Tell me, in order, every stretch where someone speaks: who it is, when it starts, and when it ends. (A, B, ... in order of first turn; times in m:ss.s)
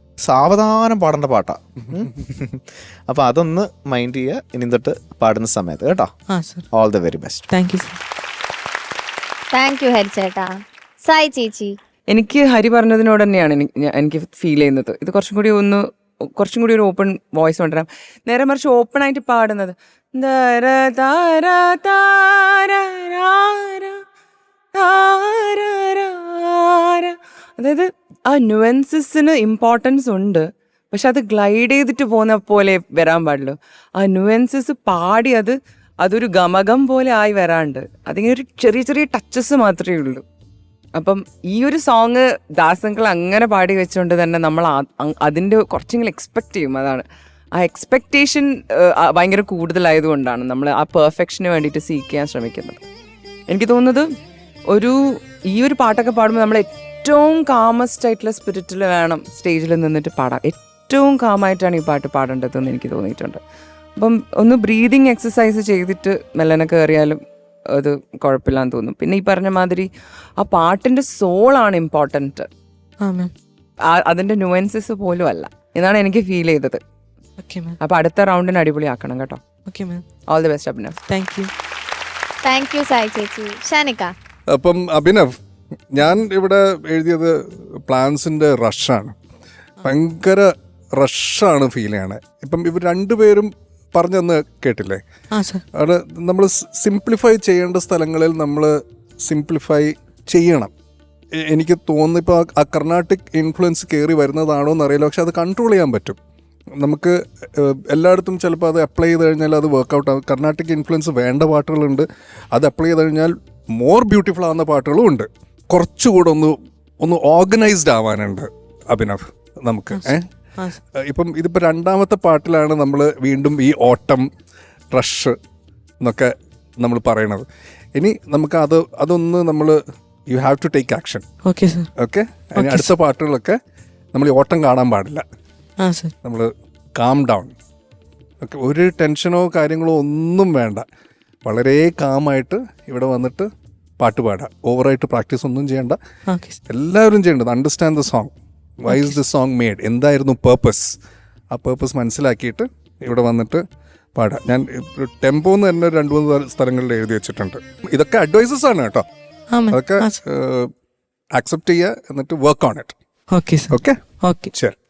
0:00.2-0:06.1 A
0:06.3-0:06.7 B
0:06.7-0:07.4 A
0:07.5-0:08.0 B
0:09.5-0:11.8 C
0:12.1-0:15.8 D
0:16.4-0:24.0 D
0:24.8-0:40.2 D
0:41.0-0:47.0 D
0:47.6-0:52.8 D
0:53.5-0:54.1 D
0:54.7-0:55.0 D
0:55.5-1:03.4 D
1:04.0-1:07.2 D
1:07.7-1:09.9 D
1:10.4-1:12.5 D
1:13.0-1:13.3 B
1:13.9-1:16.8 D
1:17.4-1:17.8 B
1:17.8-1:19.4 D
1:19.7-1:20.0 B
1:20.3-1:21.0 D
1:21.1-1:21.5 B
1:22.4-1:24.1 C
1:24.5-1:25.3 E
1:25.9-1:29.1 E
1:29.8-1:30.4 E
1:31.0-1:35.0 E
1:35.3-1:35.6 B
1:35.8-1:38.7 E
1:39.2-1:40.7 E
1:41.5-1:46.2 E
1:46.8-2:00.2 E
1:59.9-2:00.8 B
2:01.0-2:04.2 E
2:04.9-2:05.3 E
2:06.0-2:11.2 E
2:11.4-2:11.9 B
2:12.0-2:13.6 E
2:12.6-2:12.9 B
2:14.1-2:15.2 E
2:15.8-2:16.1 B
2:16.2-2:17.5 E
2:18.4-2:20.8 E
2:21.4-2:26.0 E
2:26.3-2:26.6 B
2:26.7-2:31.0 E
2:28.9-2:29.2 B
2:31.5-2:33.6 E
2:34.1-2:39.0 E
2:39.5-2:40.2 B
2:39.7-2:40.7 E
2:41.3-2:42.9 E
2:43.3-2:44.5 B
2:43.7-2:44.0 E